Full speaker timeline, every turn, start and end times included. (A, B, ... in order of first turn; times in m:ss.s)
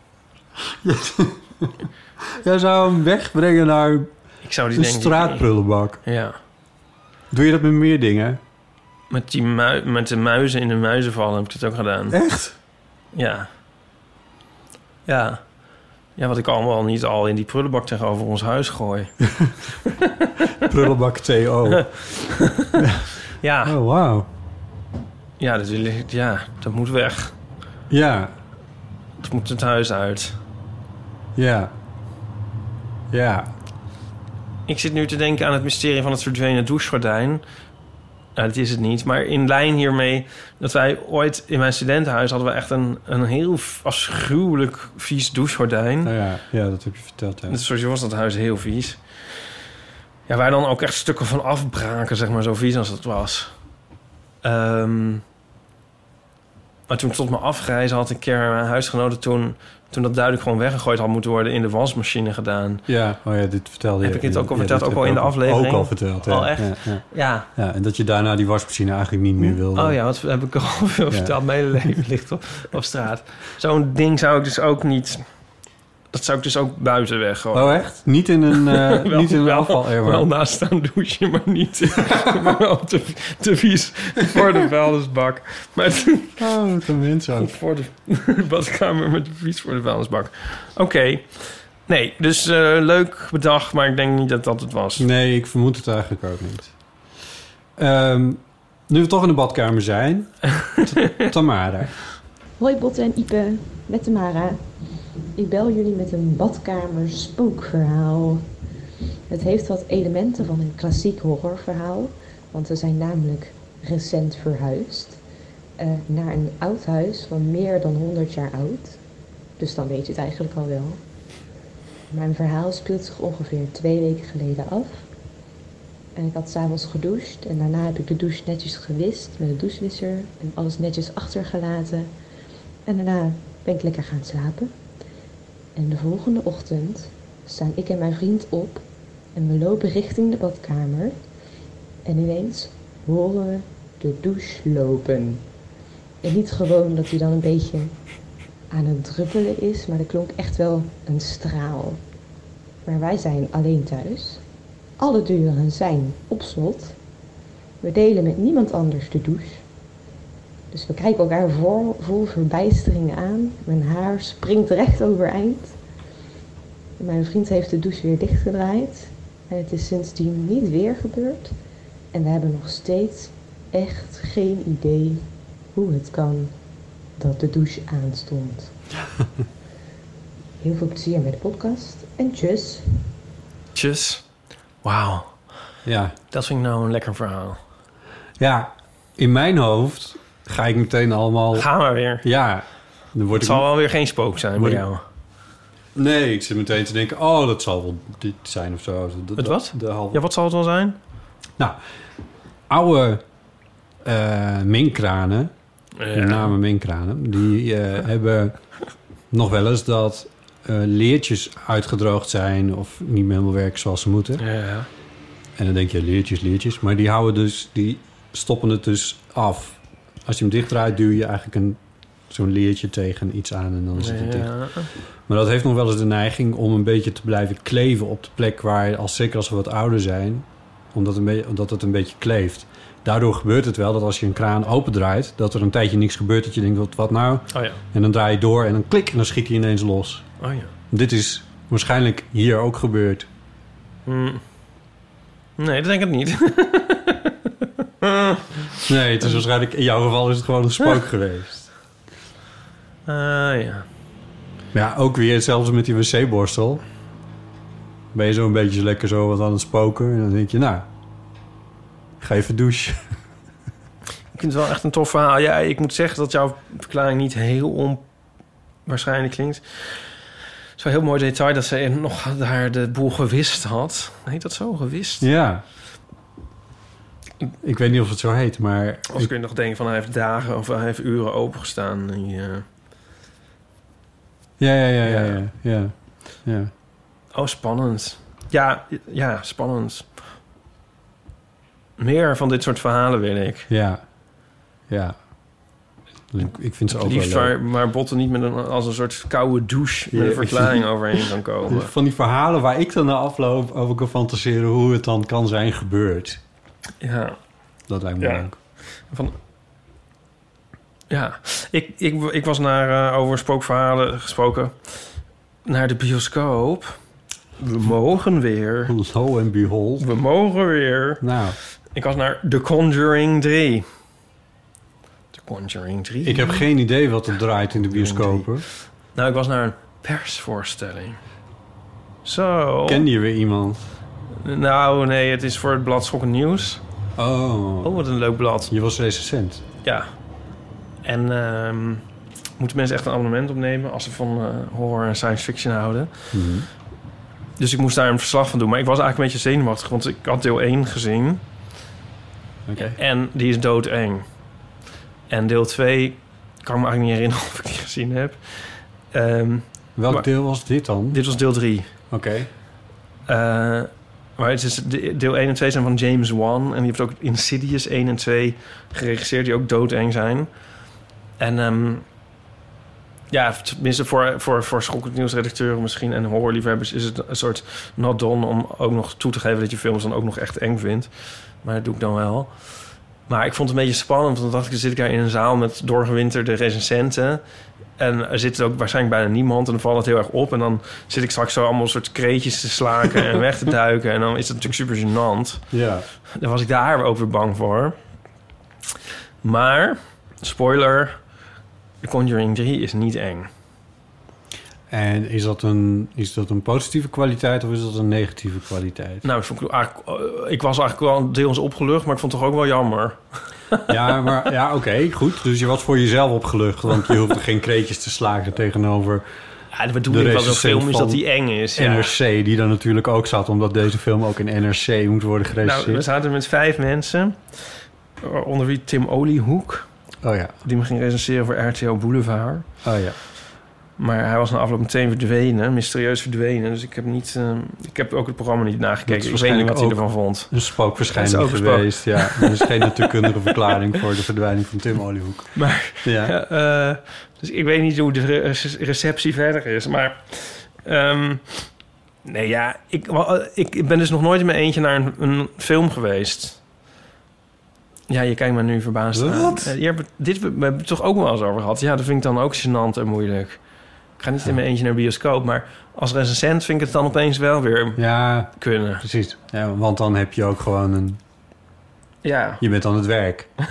0:00.7-0:04.1 A
0:04.4-0:05.4 B
0:04.7-0:06.0 A
0:06.0-0:06.4 B
0:07.3-0:08.4 A
0:09.1-0:12.2 B
0:12.1-0:12.5 A
0:13.1-0:13.5 B
0:15.1-0:15.4 B
0:16.2-0:19.2 B
0:19.8-0:20.7 B
0:20.6-0:22.0 A
0:21.8-0:22.8 B
0:22.7-0:23.1 A
0:23.4-0:23.8 B
0:23.6-0:24.3 A
0:25.4-0:27.4 B
0:27.9-0:28.3 A
0:29.2-0:30.4 B
0:31.4-0:31.7 A
0:33.1-0:33.5 A
0:34.7-0:37.4 B
0:38.4-0:46.1 B
0:46.0-0:47.6 A
0:47.5-0:49.0 B
0:50.3-0:53.5 B
0:54.4-0:55.2 B
0:56.9-1:02.8 B
1:02.9-1:10.0 A
1:04.0-1:07.5 B
1:09.4-1:15.2 B
1:16.1-1:26.4 B
1:17.5-1:20.3 A
1:22.1-1:22.4 A
1:26.4-1:27.5 A
1:27.4-1:35.1 B
1:35.0-1:36.7 A
1:37.8-1:42.0 A
1:42.6-1:44.6 C
1:45.4-1:48.4 C
1:49.3-1:55.2 C
1:55.8-1:59.0 C
1:59.6-2:01.0 C
2:02.1-2:05.0 C
2:06.2-2:12.1 C
2:12.9-2:14.7 C
2:15.8-2:18.8 C
2:19.4-2:21.2 C
2:22.0-2:25.4 C
2:26.2-2:28.0 C
2:28.7-2:32.0 C
2:32.8-2:34.4 C
2:35.0-2:37.0 C
2:37.8-2:39.6 C
2:40.7-2:45.8 C
2:47.0-2:51.6 C
2:52.1-2:56.5 C
2:57.2-2:58.7 C
3:00.6-3:02.8 C
3:03.8-3:04.2 B
3:04.8-3:05.4 B
3:05.8-3:06.2 A
3:06.3-3:07.6 B
3:08.4-3:11.7 A
3:11.5-3:12.2 B
3:12.2-3:13.7 A
3:13.3-3:15.0 B
3:14.6-3:14.8 A
3:16.0-3:20.2 A
3:19.4-3:21.0 B
3:22.7-3:23.2 A
3:24.0-3:25.5 A
3:26.0-3:26.5 B
3:26.1-3:28.6 A
3:29.3-3:34.4 A
3:34.4-3:34.9 B
3:35.6-4:00.3 A
3:44.0-3:44.9 B
3:57.5-3:57.8 B
4:00.4-4:00.7 B
4:00.9-4:03.3 A
4:04.1-4:04.4 B
4:05.6-4:07.4 B
4:08.0-4:08.6 B
4:08.9-4:11.7 A
4:13.1-4:13.9 B
4:14.7-4:16.8 A
4:18.1-4:20.9 A
4:22.2-4:23.1 A
4:24.3-4:28.0 B
4:28.9-4:30.1 B
4:30.8-4:35.3 B
4:35.2-4:35.6 A
4:37.6-4:39.3 A
4:39.1-4:42.6 B
4:44.6-4:46.7 A
4:45.0-4:45.4 B
4:47.3-4:50.1 B
4:52.0-4:53.7 B
4:53.7-4:54.0 A
4:54.9-4:55.2 A
4:56.3-4:57.6 A
4:56.9-5:01.9 B
5:00.1-5:06.4 A
5:07.0-5:07.4 B
5:07.9-5:08.6 A
5:08.2-5:09.4 B
5:11.1-5:14.8 B
5:15.6-5:17.0 B
5:17.6-5:18.9 B
5:18.9-5:20.1 A
5:20.0-5:21.2 B
5:21.2-5:21.6 A
5:21.9-5:23.9 B
5:25.3-5:26.6 B
5:26.2-5:28.7 A
5:27.9-5:31.2 B
5:32.2-5:33.0 B
5:32.9-5:33.9 A
5:34.4-5:36.8 B
5:37.2-5:37.9 A
5:37.8-5:38.7 B
5:38.7-5:39.6 A
5:39.8-5:40.1 B
5:41.0-5:42.0 B
5:42.6-5:46.3 B
5:46.3-5:46.7 A
5:47.6-5:51.4 B
5:52.7-5:53.0 A
5:52.8-5:54.2 B
5:55.3-6:00.3 B
6:00.0-6:01.2 A
6:01.1-6:01.9 B
6:02.1-6:02.5 A
6:03.3-6:10.5 B
6:11.4-6:12.0 B
6:13.3-6:21.1 B
6:21.6-6:27.4 B
6:28.0-6:35.6 B
6:35.7-6:36.1 A
6:36.4-6:38.0 B
6:39.4-6:41.2 B
6:42.0-6:43.5 B
6:44.9-6:49.3 A
6:49.2-6:53.2 B
6:53.9-6:59.3 A
6:59.7-7:02.1 B
7:00.1-7:06.1 A
7:05.6-7:09.9 B
7:10.2-7:10.6 A
7:10.6-7:12.7 B
7:12.8-7:13.2 A
7:14.0-7:23.7 B
7:19.1-7:26.3 A
7:25.6-7:31.7 B
7:32.2-7:36.6 B
7:38.1-7:43.6 B
7:39.1-7:39.7 A
7:44.2-7:49.0 B
7:48.0-7:51.2 A
7:52.2-7:52.6 B
7:52.6-7:53.5 A